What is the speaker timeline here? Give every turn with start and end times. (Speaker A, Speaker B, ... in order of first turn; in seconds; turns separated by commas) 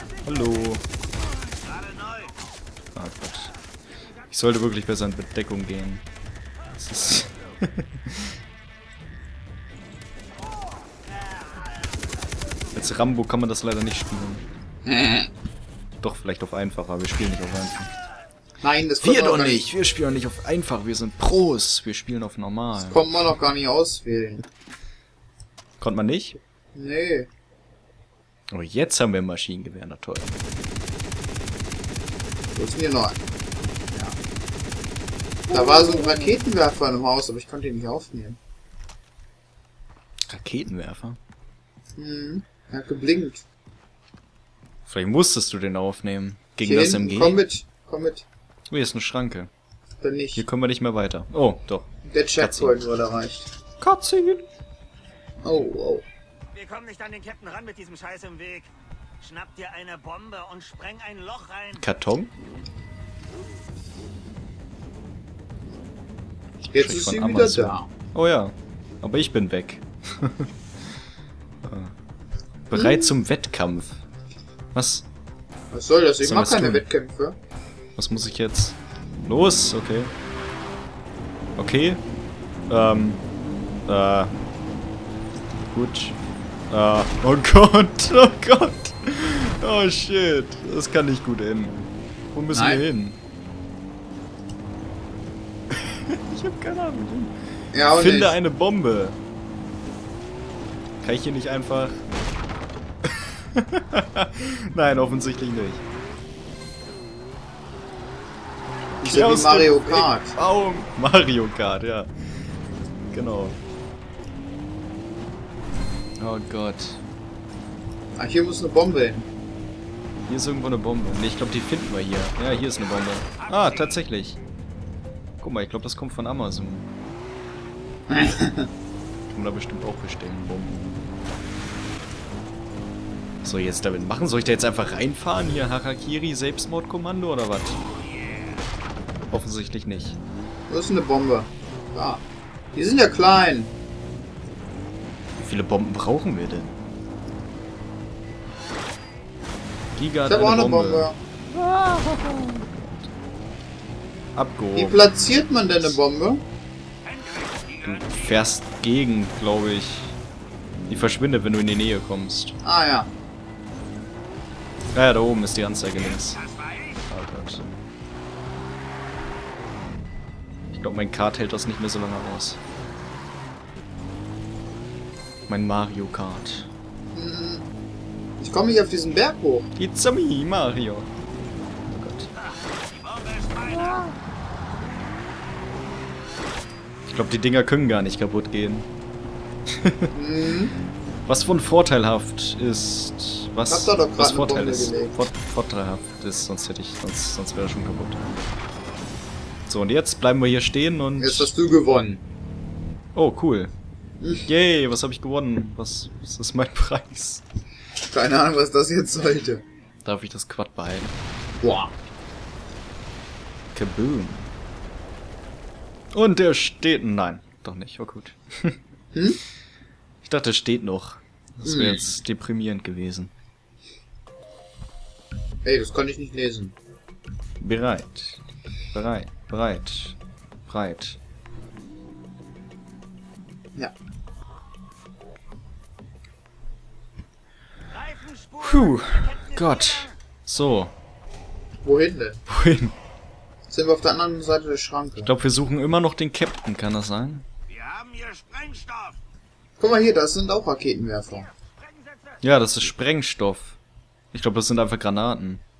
Speaker A: 0.2-0.8, Speaker A: 2.9-3.5, Speaker A: 4.3-6.0, Speaker A: 6.8-8.3, Speaker A: 12.7-14.4, Speaker B: 14.8-15.3, Speaker A: 16.0-17.9, Speaker B: 18.6-19.7, Speaker A: 19.0-23.0, Speaker B: 22.8-24.4, Speaker A: 25.8-26.4, Speaker B: 26.7-27.3, Speaker A: 28.5-30.4, Speaker B: 32.5-33.2, Speaker B: 33.9-34.2, Speaker A: 35.5-36.4, Speaker B: 35.5-38.4, Speaker A: 40.2-41.2, Speaker B: 42.0-43.4, Speaker A: 44.9-47.4, Speaker B: 46.6-48.2, Speaker A: 48.7-49.5, Speaker B: 50.0-50.4, Speaker A: 50.4-52.8, Speaker B: 52.0-53.5, Speaker A: 53.8-54.5, Speaker B: 55.4-56.0, Speaker C: 56.6-58.7, Speaker C: 59.2-61.6, Speaker A: 61.7-62.3, Speaker A: 66.7-70.5, Speaker B: 66.7-67.9, Speaker A: 71.6-71.9, Speaker A: 72.7-74.0, Speaker B: 72.8-73.0, Speaker A: 74.7-75.0, Speaker B: 75.7-77.4, Speaker A: 76.2-76.8, Speaker A: 78.0-80.1, Speaker A: 81.5-82.0, Speaker A: 82.7-83.2, Speaker A: 83.8-84.3, Speaker A: 85.7-86.2, Speaker A: 86.7-93.2, Speaker B: 92.5-92.8, Speaker A: 95.7-97.3, Speaker B: 97.7-98.3, Speaker A: 97.9-99.2, Speaker A: 101.0-102.0, Speaker A: 103.0-105.8, Speaker B: 109.0-110.3, Speaker A: 109.0-112.1, Speaker A: 113.1-113.6, Speaker A: 116.2-117.0, Speaker B: 118.2-119.3, Speaker A: 120.3-124.4, Speaker A: 125.4-126.9, Speaker B: 128.1-128.7, Speaker A: 129.3-131.1, Speaker A: 133.4-137.8, Speaker A: 139.3-140.2, Speaker B: 140.7-142.2, Speaker B: 142.7-143.7, Speaker A: 145.4-146.7, Speaker A: 149.9-153.1, Speaker B: 150.3-151.2, Speaker A: 154.3-155.9, Speaker B: 154.7-156.4, Speaker A: 157.8-160.2, Speaker A: 160.9-162.5, Speaker B: 162.6-163.1, Speaker A: 164.9-166.4, Speaker A: 167.1-167.7, Speaker A: 170.7-172.6, Speaker A: 175.5-176.7, Speaker B: 177.1-177.6, Speaker B: 178.4-179.7, Speaker A: 179.8-181.1, Speaker A: 181.9-182.3, Speaker A: 183.6-184.1, Speaker A: 187.1-188.9, Speaker A: 189.7-190.1, Speaker B: 190.1-190.8, Speaker A: 191.3-198.2, Speaker B: 193.7-195.3, Speaker A: 199.7-201.5, Speaker B: 201.2-202.2, Speaker A: 203.1-203.7, Speaker B: 204.2-204.4, Speaker A: 204.3-207.4, Speaker B: 208.1-209.6, Speaker A: 210.0-211.2, Speaker B: 211.6-211.9, Speaker A: 213.7-214.5, Speaker A: 216.1-218.8, Speaker B: 219.1-219.4, Speaker A: 220.2-223.3, Speaker B: 221.6-222.1, Speaker B: 225.6-226.7, Speaker A: 227.6-228.4, Speaker A: 228.9-230.2, Speaker A: 230.7-231.2, Speaker A: 238.6-240.9, Speaker B: 241.8-242.4, Speaker A: 242.5-242.9, Speaker B: 243.7-245.3, Speaker A: 245.2-247.4, Speaker C: 247.8-248.9, Speaker B: 249.8-251.5, Speaker A: 252.4-253.8, Speaker A: 254.3-255.6